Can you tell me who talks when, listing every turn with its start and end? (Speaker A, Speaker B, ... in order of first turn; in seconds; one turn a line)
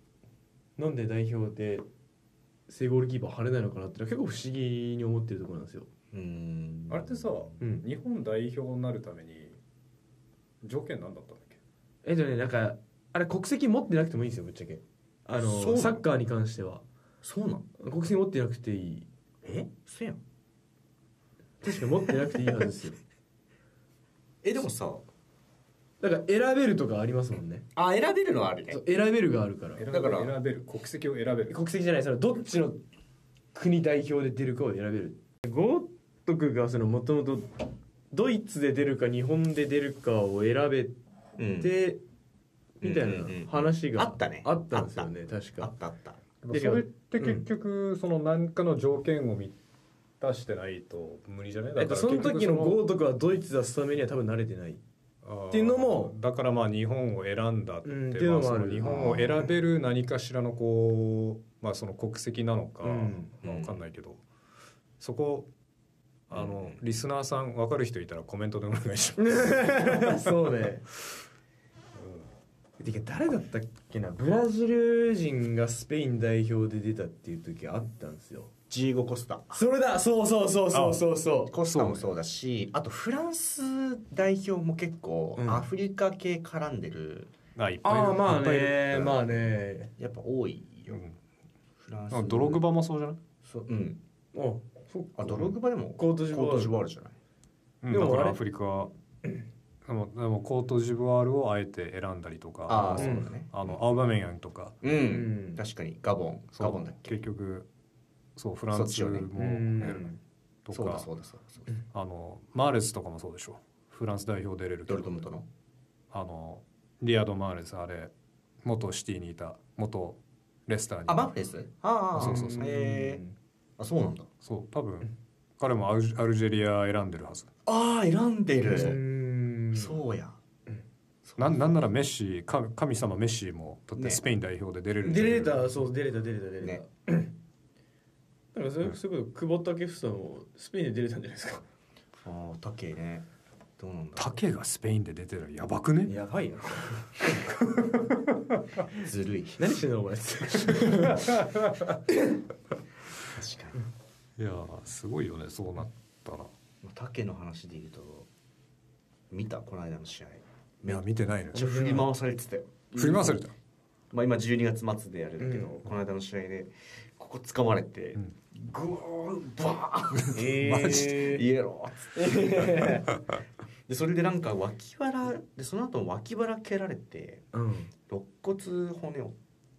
Speaker A: 0.8-1.9
Speaker A: 2.7-5.9
Speaker B: 6.1-7.4
Speaker C: 6.9-9.6
Speaker C: 10.6-11.6
Speaker A: 12.1-16.9
Speaker B: 15.4-16.0
Speaker B: 17.2-17.7
Speaker A: 17.8-19.1
Speaker B: 19.4-20.2
Speaker A: 21.6-23.0
Speaker B: 24.4-25.1
Speaker A: 26.0-27.6
Speaker B: 27.8-28.8
Speaker A: 28.7-29.9
Speaker C: 29.8-31.6
Speaker B: 29.9-30.3
Speaker A: 31.5-32.8
Speaker A: 33.5-41.0
Speaker B: 41.4-41.7
Speaker A: 41.5-42.0
Speaker A: 42.8-45.7
Speaker B: 42.8-46.2
Speaker C: 46.4-49.6
Speaker A: 46.5-47.5
Speaker C: 50.2-52.8
Speaker A: 51.8-54.8
Speaker C: 55.2-64.2
Speaker A: 55.5-56.1
Speaker A: 57.9-59.3
Speaker B: 58.9-59.3
Speaker A: 62.8-63.3
Speaker B: 63.4-63.8
Speaker C: 65.0-65.5
Speaker C: 66.3-70.2
Speaker B: 66.3-66.8
Speaker A: 69.2-70.9
Speaker C: 72.0-72.3
Speaker A: 72.8-78.5
Speaker B: 78.7-79.6
Speaker A: 79.5-81.5
Speaker C: 80.7-81.0
Speaker B: 81.5-87.3
Speaker C: 81.7-82.1
Speaker A: 85.4-85.7
Speaker C: 87.6-89.2
Speaker A: 87.8-89.9
Speaker B: 90.0-91.0
Speaker C: 90.9-91.2
Speaker B: 91.8-92.6
Speaker C: 92.1-93.2
Speaker B: 93.5-94.0
Speaker A: 94.3-96.8
Speaker B: 95.2-97.2
Speaker C: 97.8-98.9
Speaker A: 97.9-98.4
Speaker C: 99.8-104.8
Speaker B: 102.7-103.8
Speaker A: 103.0-103.3
Speaker B: 104.8-107.2
Speaker A: 105.0-105.6
Speaker C: 106.6-107.7
Speaker C: 108.4-110.1
Speaker B: 108.7-109.3
Speaker A: 109.4-110.2
Speaker C: 110.7-111.1
Speaker B: 110.7-111.7
Speaker C: 111.9-115.3
Speaker B: 114.9-115.5
Speaker C: 116.1-118.1
Speaker C: 118.6-121.3
Speaker B: 121.1-123.2
Speaker C: 122.2-122.6
Speaker A: 122.2-123.3
Speaker B: 123.8-124.3
Speaker C: 124.4-127.5
Speaker B: 127.7-129.0
Speaker A: 128.7-130.0
Speaker B: 129.7-130.4
Speaker B: 131.2-131.8
Speaker C: 131.4-135.7
Speaker B: 134.0-134.2
Speaker A: 135.0-137.3
Speaker A: 138.5-141.7
Speaker B: 142.2-143.3
Speaker B: 143.8-144.4
Speaker C: 144.2-146.2
Speaker A: 146.1-147.1
Speaker C: 147.2-148.6
Speaker B: 148.9-149.8
Speaker A: 149.6-151.4
Speaker C: 150.8-152.0
Speaker B: 153.3-153.8
Speaker C: 154.4-156.5
Speaker B: 156.8-158.3
Speaker B: 159.3-163.4
Speaker C: 160.9-161.9
Speaker A: 161.6-162.1
Speaker C: 162.9-163.5
Speaker B: 164.1-173.0
Speaker A: 165.4-165.8
Speaker C: 170.2-171.1
Speaker A: 170.3-171.4
Speaker A: 172.1-173.2
Speaker B: 173.9-177.5
Speaker A: 177.5-177.9
Speaker B: 178.1-179.4